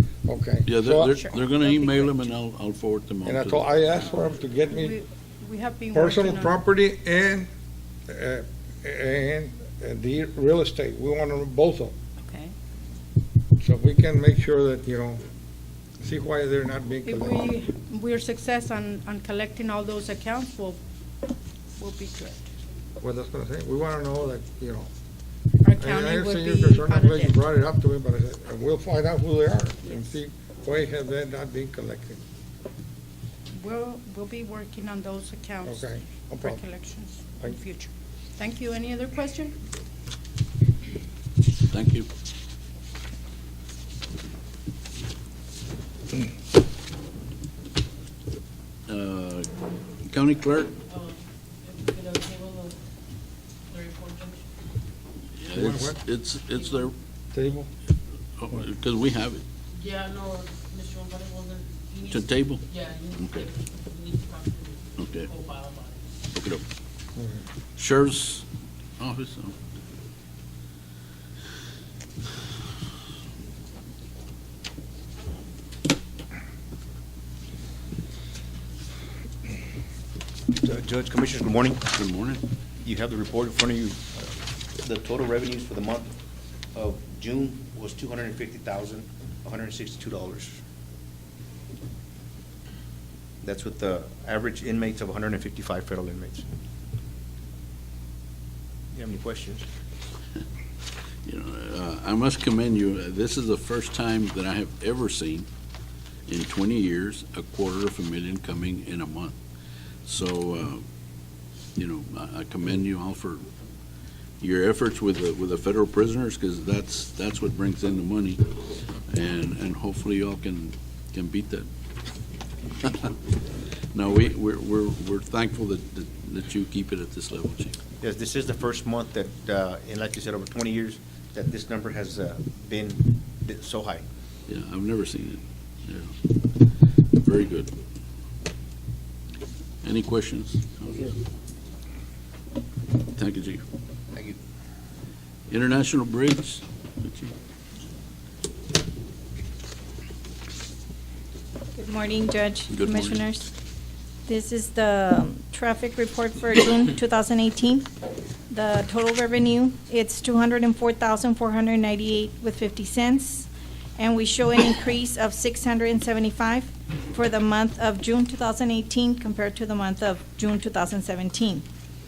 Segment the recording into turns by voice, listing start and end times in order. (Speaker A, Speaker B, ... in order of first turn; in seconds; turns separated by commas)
Speaker A: 0.3-1.2, Speaker B: 0.6-3.8, Speaker C: 1.0-2.1, Speaker A: 3.2-4.9, Speaker C: 3.9-6.6, Speaker A: 5.9-7.5, Speaker A: 8.1-11.9, Speaker C: 12.2-12.5, Speaker A: 13.6-15.2, Speaker A: 16.0-17.4, Speaker C: 17.0-20.8, Speaker C: 21.8-22.5, Speaker A: 23.0-24.9, Speaker C: 25.6-27.4, Speaker A: 25.8-32.2, Speaker C: 33.5-39.6, Speaker A: 35.6-36.6, Speaker B: 41.7-42.1, Speaker B: 48.9-49.5, Speaker B: 50.0-50.8, Speaker D: 50.9-51.1, Speaker D: 51.6-52.7, Speaker D: 53.7-54.4, Speaker B: 55.4-56.9, Speaker A: 55.5-56.0, Speaker A: 57.3-57.7, Speaker B: 58.4-59.4, Speaker D: 59.8-66.0, Speaker B: 62.1-63.5, Speaker B: 65.0-65.3, Speaker B: 66.3-66.6, Speaker A: 67.2-67.4, Speaker B: 67.8-68.4, Speaker B: 69.0-69.5, Speaker E: 80.5-81.8, Speaker B: 81.9-82.4, Speaker E: 82.8-84.3, Speaker E: 84.8-86.1, Speaker E: 86.7-90.6, Speaker E: 93.4-96.4, Speaker E: 98.9-99.6, Speaker B: 101.2-105.5, Speaker B: 106.3-109.3, Speaker B: 110.0-110.8, Speaker B: 111.8-113.4, Speaker B: 114.4-118.5, Speaker B: 119.1-121.7, Speaker B: 122.8-123.2, Speaker B: 123.9-127.8, Speaker E: 128.0-134.0, Speaker B: 134.5-136.1, Speaker B: 137.1-137.7, Speaker B: 139.8-141.2, Speaker B: 143.1-143.6, Speaker B: 145.5-147.3, Speaker F: 151.8-153.5, Speaker B: 152.7-153.2, Speaker F: 154.2-157.9, Speaker F: 158.5-171.6